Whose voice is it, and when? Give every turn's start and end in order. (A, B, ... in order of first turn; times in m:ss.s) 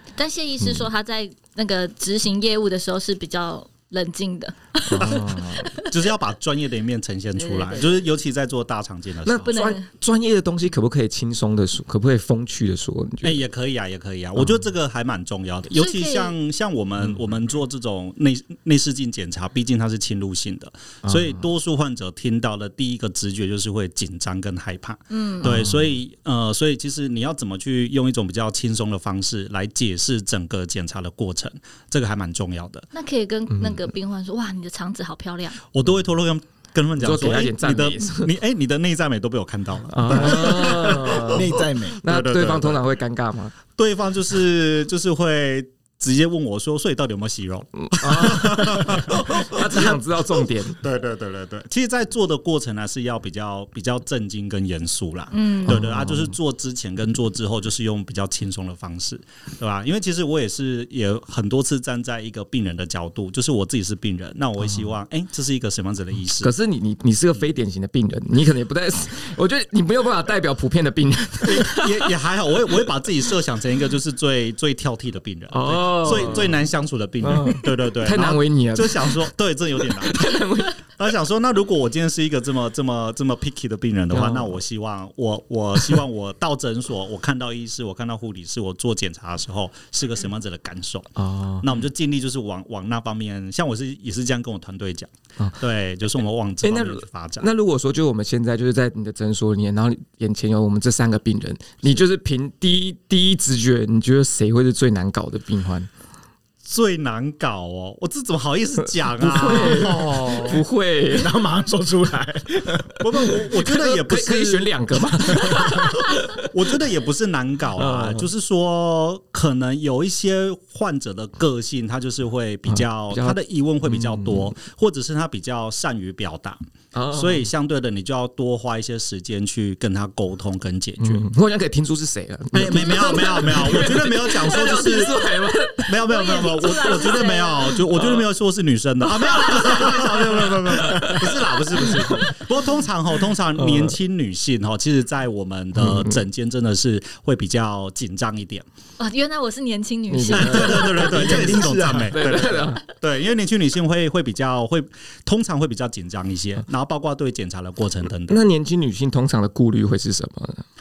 0:00.2-0:05.9 A
0:00.6-0:00.9 B
0:04.9-0:05.7 B
0:05.8-0:09.6 C
0:07.4-0:08.0 A
0:09.2-0:13.4 B
0:09.5-0:09.8 A
0:13.2-0:32.9 C
0:15.7-0:16.3 A
0:21.1-0:21.4 B
0:25.1-0:25.6 A
0:25.4-0:25.9 B
0:32.9-0:35.6 A
0:33.5-0:33.9 B
0:35.7-0:42.8 C
0:37.0-0:38.3 B
0:39.9-0:41.5 B
0:40.1-0:42.0 D
0:42.0-0:43.5 B
0:43.8-1:06.5 C
0:47.9-0:50.8 B
0:55.3-0:55.8 A
0:55.6-0:56.3 B
1:06.4-1:12.1 B
1:11.4-1:20.4 C
1:15.5-1:16.6 B
1:17.2-1:19.3 B
1:19.9-1:20.8 B
1:21.0-1:37.5 C
1:24.1-1:24.6 B
1:31.2-1:31.8 B
1:36.6-1:45.9 B
1:46.6-1:50.6 C
1:49.1-1:51.4 B
1:51.1-1:53.0 D
1:53.0-1:54.7 C
1:53.3-1:56.7 B
1:55.3-1:55.9 D
1:55.5-1:55.8 C
1:56.4-2:06.6 C
1:57.8-1:58.3 B
2:02.7-2:04.5 B
2:06.9-2:07.5 B
2:07.1-2:11.2 C
2:11.0-2:16.0 B
2:12.5-2:15.2 C
2:12.6-2:13.9 A
2:15.8-2:28.6 C
2:16.1-2:17.8 A
2:16.9-2:17.1 B
2:17.9-2:18.2 B
2:19.2-2:21.3 B
2:19.5-2:20.1 A
2:23.6-2:23.9 B
2:25.8-2:26.2 B
2:29.0-2:31.2 A
2:30.1-2:32.8 B
2:30.3-2:38.4 C
2:30.7-2:32.3 D
2:38.3-2:40.6 B